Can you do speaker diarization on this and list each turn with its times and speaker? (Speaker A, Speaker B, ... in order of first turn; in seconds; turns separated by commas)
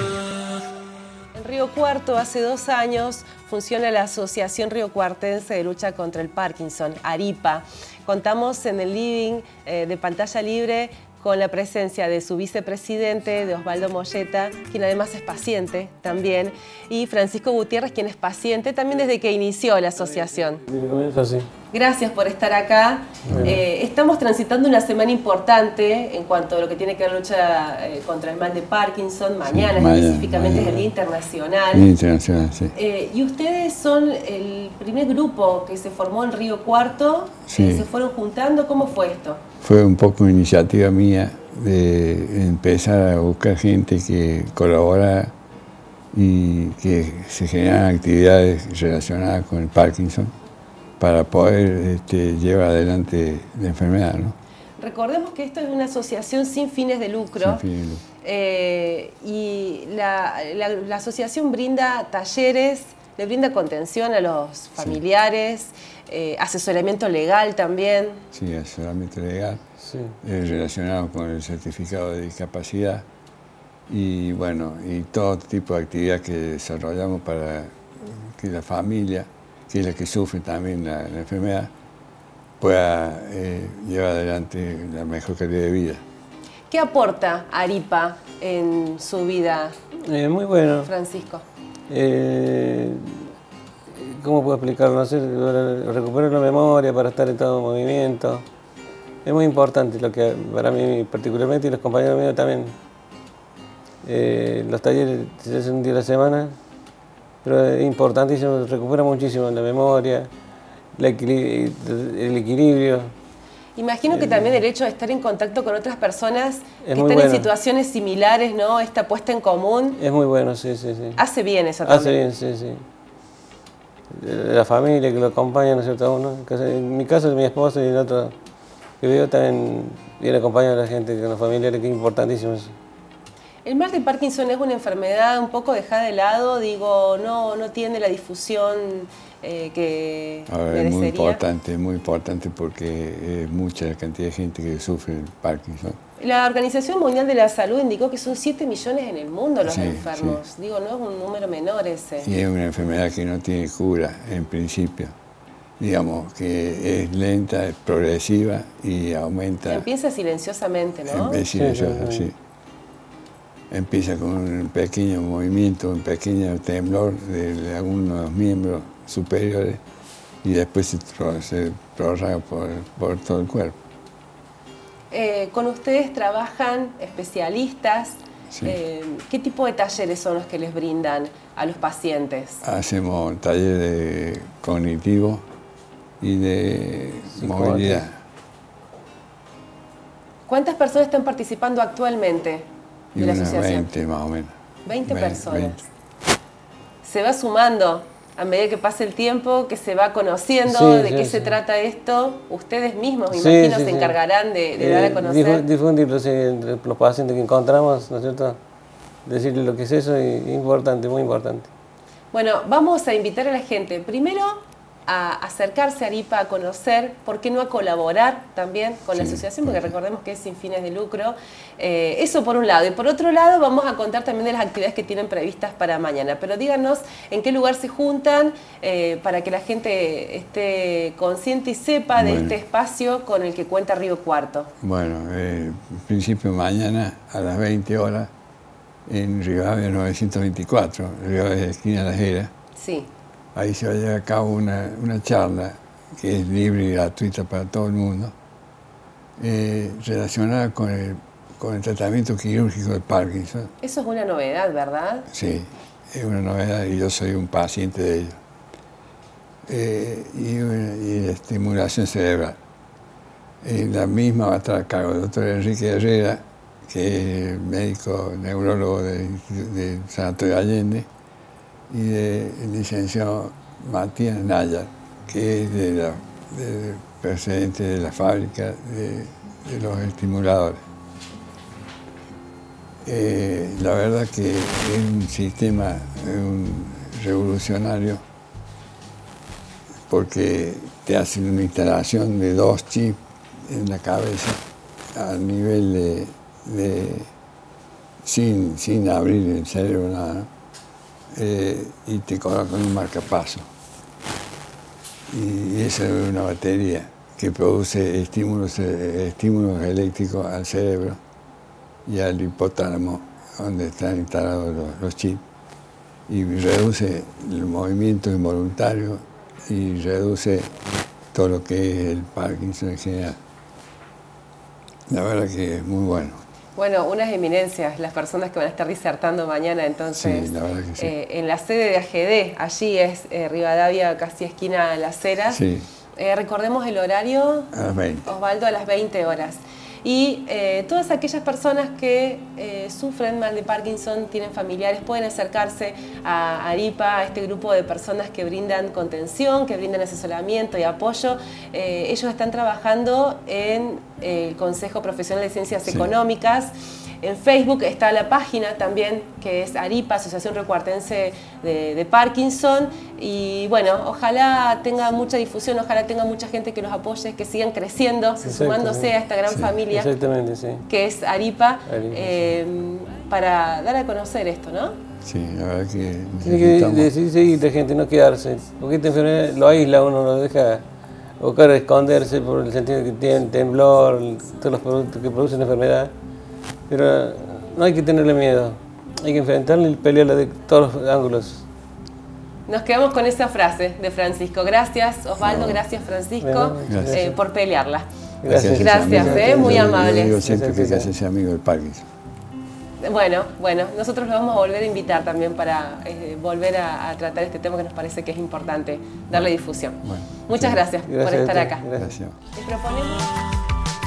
Speaker A: 1.3-20.6, Speaker B: 20.7-21.5, Speaker A: 21.7-31.9, Speaker B: 23.2-23.6, Speaker C: 29.5-30.8, Speaker C: 31.7-32.7, Speaker A: 32.7-39.4, Speaker C: 37.5-37.9, Speaker C: 39.6-45.3, Speaker C: 46.1-50.3, Speaker C: 51.0-54.4, Speaker A: 54.8-57.6, Speaker C: 57.4-58.0, Speaker A: 58.2-68.2, Speaker C: 68.3-69.6, Speaker B: 69.8-70.2, Speaker C: 70.2-73.0, Speaker C: 73.9-81.7, Speaker C: 82.6-86.0, Speaker A: 86.7-89.8, Speaker B: 90.0-90.9, Speaker A: 90.8-91.4, Speaker B: 91.9-93.3, Speaker B: 93.9-98.5, Speaker B: 99.2-102.8, Speaker B: 104.0-106.6, Speaker B: 107.4-110.3, Speaker B: 111.0-113.1, Speaker A: 113.8-120.0, Speaker B: 114.1-114.6, Speaker B: 116.8-117.5, Speaker B: 120.0-121.2, Speaker A: 121.2-122.2, Speaker B: 121.8-122.8, Speaker B: 124.1-128.3, Speaker B: 129.0-132.7, Speaker A: 133.6-141.4, Speaker C: 140.5-146.0, Speaker A: 146.2-152.3, Speaker C: 149.6-150.4, Speaker C: 152.2-155.1, Speaker C: 155.8-159.8, Speaker A: 159.6-161.4, Speaker C: 161.1-162.3, Speaker B: 161.5-162.3, Speaker C: 163.7-169.8, Speaker C: 170.4-173.8, Speaker A: 175.1-182.6, Speaker C: 178.5-178.8, Speaker C: 182.6-185.4, Speaker C: 186.2-188.2, Speaker B: 187.3-188.0, Speaker A: 190.5-193.9, Speaker C: 193.1-195.8, Speaker A: 194.8-195.8, Speaker A: 197.0-205.7, Speaker B: 200.6-201.6, Speaker B: 203.3-204.2, Speaker B: 204.8-208.6, Speaker B: 209.2-211.7, Speaker A: 212.3-234.7, Speaker C: 219.1-219.8, Speaker C: 232.2-232.6, Speaker C: 234.8-238.3, Speaker C: 239.1-242.5, Speaker A: 242.8-243.1, Speaker C: 243.5-248.3, Speaker C: 249.4-253.7, Speaker A: 253.8-255.3, Speaker C: 255.3-258.4, Speaker C: 259.7-262.6, Speaker C: 263.6-271.1, Speaker C: 271.9-280.8, Speaker C: 283.0-288.2, Speaker C: 290.1-294.6, Speaker C: 295.1-297.3, Speaker C: 298.2-300.5, Speaker C: 301.3-303.7, Speaker C: 305.3-311.2, Speaker C: 312.1-315.4, Speaker C: 316.3-320.7, Speaker C: 321.3-323.4, Speaker C: 325.1-326.4, Speaker A: 326.8-335.6, Speaker C: 330.1-331.1, Speaker C: 335.5-335.9, Speaker A: 336.1-337.7, Speaker C: 337.7-338.3, Speaker A: 338.2-370.1, Speaker B: 368.4-369.1, Speaker C: 369.5-369.8, Speaker B: 369.9-370.8, Speaker A: 370.9-374.9, Speaker B: 371.9-372.3, Speaker C: 375.2-377.1, Speaker B: 376.4-380.8, Speaker B: 381.4-386.1, Speaker B: 386.9-391.6, Speaker A: 392.7-398.1, Speaker C: 395.4-395.8, Speaker B: 396.4-397.3, Speaker C: 396.9-397.2, Speaker B: 398.4-401.1, Speaker C: 398.4-402.1, Speaker A: 398.7-400.4, Speaker A: 403.0-411.8, Speaker C: 410.0-410.8, Speaker B: 411.1-412.2, Speaker C: 412.0-412.4, Speaker A: 412.5-413.3